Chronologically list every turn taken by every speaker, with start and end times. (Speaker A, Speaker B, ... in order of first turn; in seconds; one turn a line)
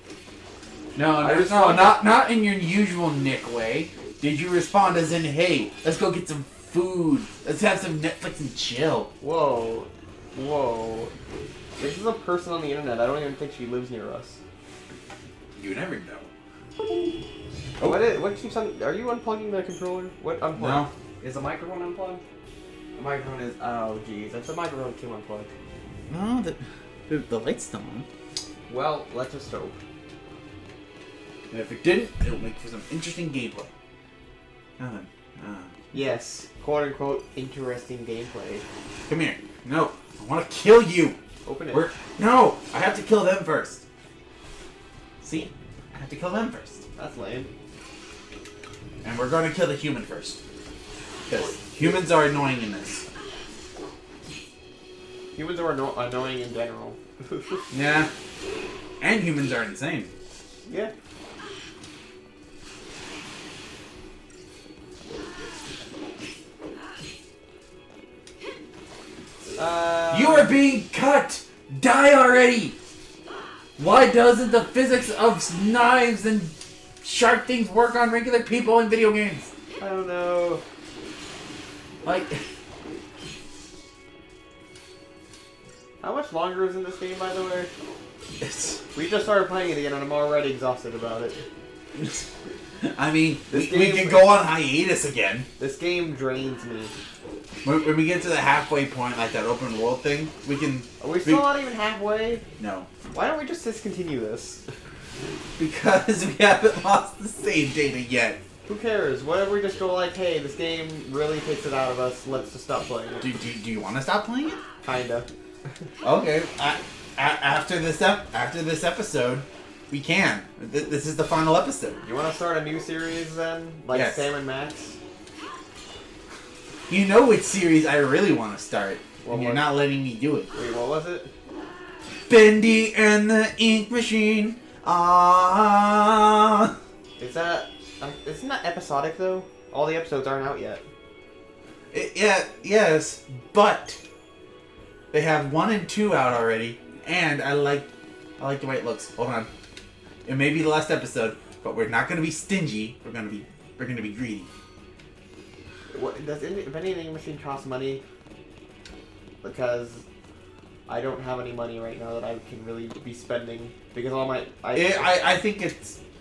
Speaker A: 0.9-9.1
Speaker B: 1.2-2.0
Speaker B: 9.2-11.1
Speaker B: 11.8-14.4
Speaker A: 15.6-16.3
Speaker B: 17.8-22.2
Speaker A: 20.6-20.9
Speaker B: 23.0-25.5
Speaker A: 26.1-28.1
Speaker B: 28.7-29.8
Speaker A: 31.5-33.7
Speaker A: 34.8-35.8
Speaker B: 35.9-38.6
Speaker A: 39.1-41.2
Speaker B: 41.4-41.9
Speaker A: 41.7-43.8
Speaker A: 45.2-46.9
Speaker B: 47.0-47.5
Speaker A: 49.0-50.4
Speaker A: 51.3-53.0
Speaker B: 51.3-52.0
Speaker B: 55.3-57.6
Speaker A: 57.7-58.1
Speaker A: 59.0-60.1
Speaker B: 60.6-60.9
Speaker B: 69.5-70.5
Speaker A: 70.1-72.8
Speaker A: 73.8-79.5
Speaker B: 79.8-80.6
Speaker A: 82.0-82.4
Speaker B: 86.0-87.7
Speaker A: 88.4-88.8
Speaker B: 88.9-91.4
Speaker A: 91.9-92.2
Speaker A: 92.8-95.5
Speaker B: 93.5-94.3
Speaker B: 95.6-96.9
Speaker A: 97.6-101.5
Speaker B: 101.0-102.4
Speaker A: 102.6-102.9
Speaker B: 103.1-104.7
Speaker A: 105.6-108.4
Speaker B: 108.7-113.3
Speaker A: 113.2-114.6
Speaker B: 114.8-115.3
Speaker A: 116.0-122.0
Speaker B: 122.0-125.0
Speaker A: 123.9-124.2
Speaker A: 126.9-130.5
Speaker B: 129.2-129.7
Speaker B: 130.5-131.3
Speaker A: 132.2-136.8
Speaker B: 137.2-140.8
Speaker A: 141.9-144.0
Speaker A: 145.1-149.5
Speaker A: 150.2-154.5
Speaker B: 155.9-158.0
Speaker B: 159.4-160.1
Speaker B: 160.9-165.3
Speaker A: 164.7-166.0